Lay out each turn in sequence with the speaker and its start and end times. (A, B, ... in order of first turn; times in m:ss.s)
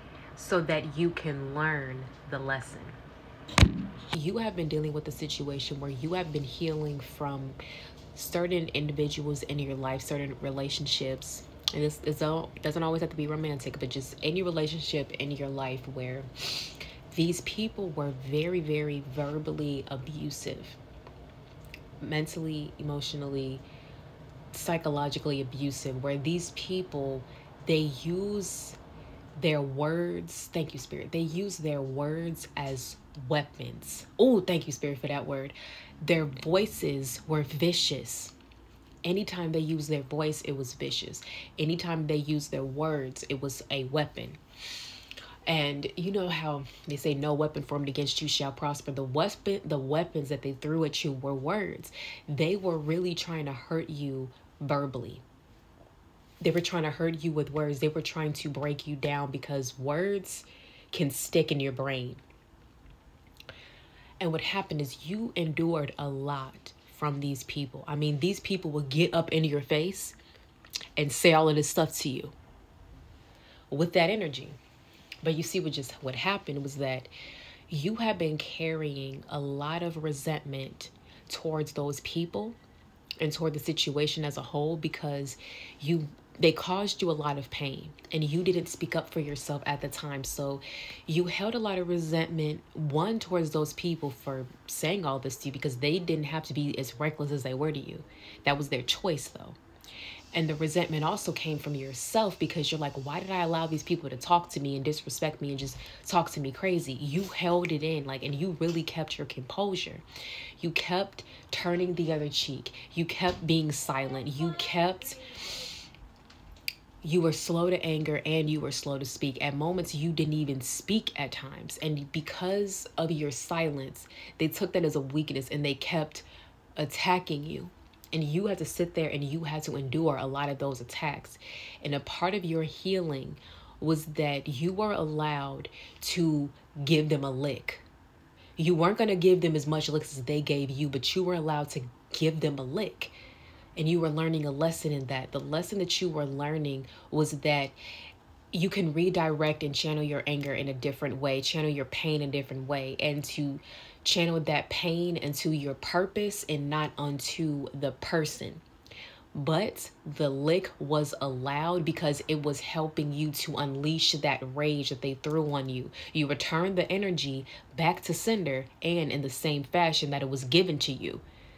0:00.4-0:03.0 A
0:04.1-0:07.6 A
0:08.2-0:20.8 A
0:22.0-0:23.6 A
0:24.5-0:28.8 A
0:29.4-0:38.3 A
0:39.0-0:44.4 A
0:45.5-0:55.2 A
0:56.4-1:02.2 A
1:04.2-1:10.2 A
1:11.0-1:12.3 A
1:13.7-1:14.6 A
1:15.2-1:17.1 A
1:17.7-1:22.6 A
1:23.2-1:39.6 A
1:40.3-1:50.0 A
1:50.6-1:55.6 A
1:57.0-2:06.3 A
2:06.8-2:17.8 A
2:18.6-2:23.1 A
2:23.8-2:27.8 A
2:28.5-2:38.6 A
2:39.4-2:51.2 A